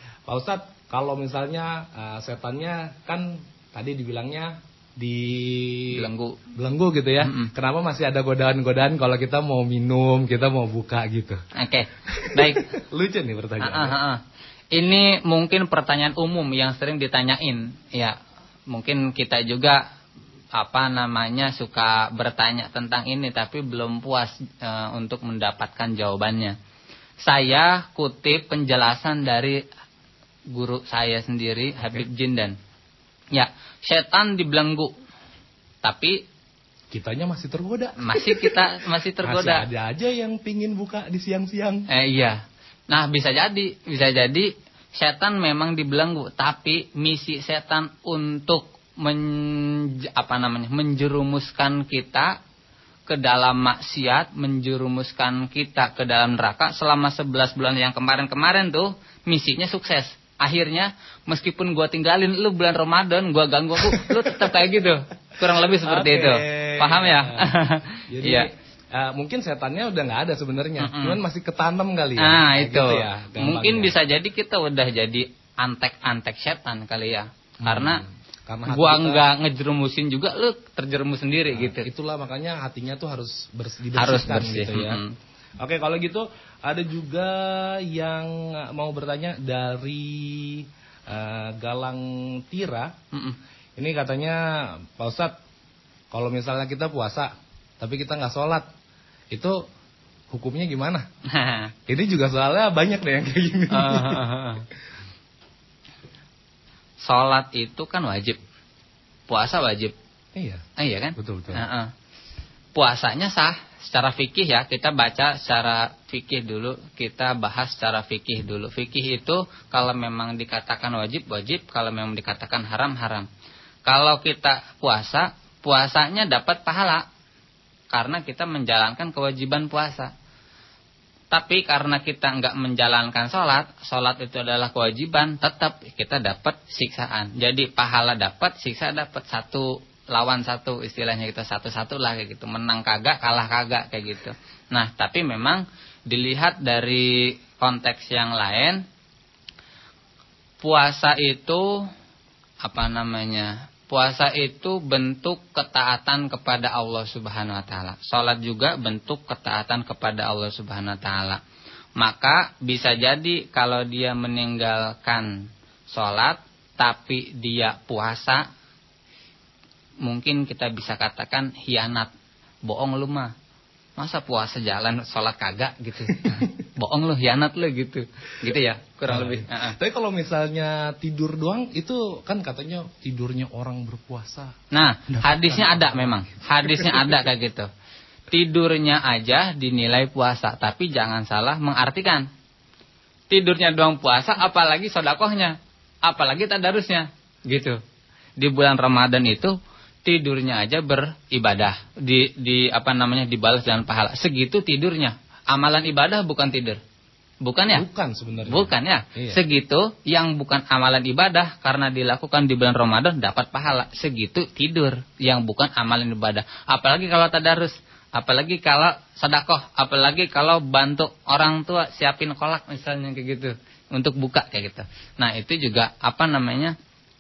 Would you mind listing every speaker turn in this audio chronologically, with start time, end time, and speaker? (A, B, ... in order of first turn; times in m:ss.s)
0:00.3-0:11.4 A
0:05.9-0:06.4 B
0:07.2-0:07.5 B
0:11.6-0:12.6 B
0:12.1-0:14.0 A
0:13.6-0:14.2 B
0:14.7-0:18.2 B
0:18.7-0:19.8 B
0:20.6-0:26.6 B
0:27.2-0:29.6 B
0:30.5-0:32.6 B
0:31.8-0:32.0 A
0:33.3-0:34.9 B
0:35.8-0:36.2 B
0:36.9-0:41.9 A
0:38.0-0:39.7 B
0:41.9-0:52.4 B
0:53.1-1:08.5 B
1:03.9-1:04.3 A
1:05.8-1:14.0 A
1:10.8-1:11.2 B
1:12.2-1:18.0 B
1:17.6-1:19.3 A
1:18.7-1:21.9 B
1:21.5-1:25.0 A
1:24.0-1:25.2 B
1:25.6-1:33.0 A
1:33.1-1:33.4 B
1:33.8-1:35.4 A
1:36.1-1:38.7 A
1:39.3-1:39.7 A
1:40.3-1:41.1 A
1:41.3-1:41.7 B
1:41.9-1:44.2 A
1:43.7-1:44.6 B
1:47.0-1:48.4 B
1:49.3-1:49.9 B
1:50.4-1:50.6 A
1:50.8-1:51.9 B
1:51.2-1:51.7 A
1:52.8-2:03.3 B
2:03.9-2:07.1 B
2:07.9-2:10.1 B
2:11.3-2:28.8 B
2:30.6-2:31.8 B
2:32.6-2:41.4 B
2:42.0-2:48.4 B
2:50.0-2:52.1 B
2:52.6-2:53.3 B
2:54.0-2:59.8 B
2:59.1-3:04.6 A
3:04.7-3:07.7 B
3:05.1-3:07.2 A
3:08.3-3:12.3 B
3:13.3-3:17.8 B
3:18.4-3:26.8 B
3:27.4-3:27.9 B
3:27.7-3:29.4 A
3:28.5-3:46.8 B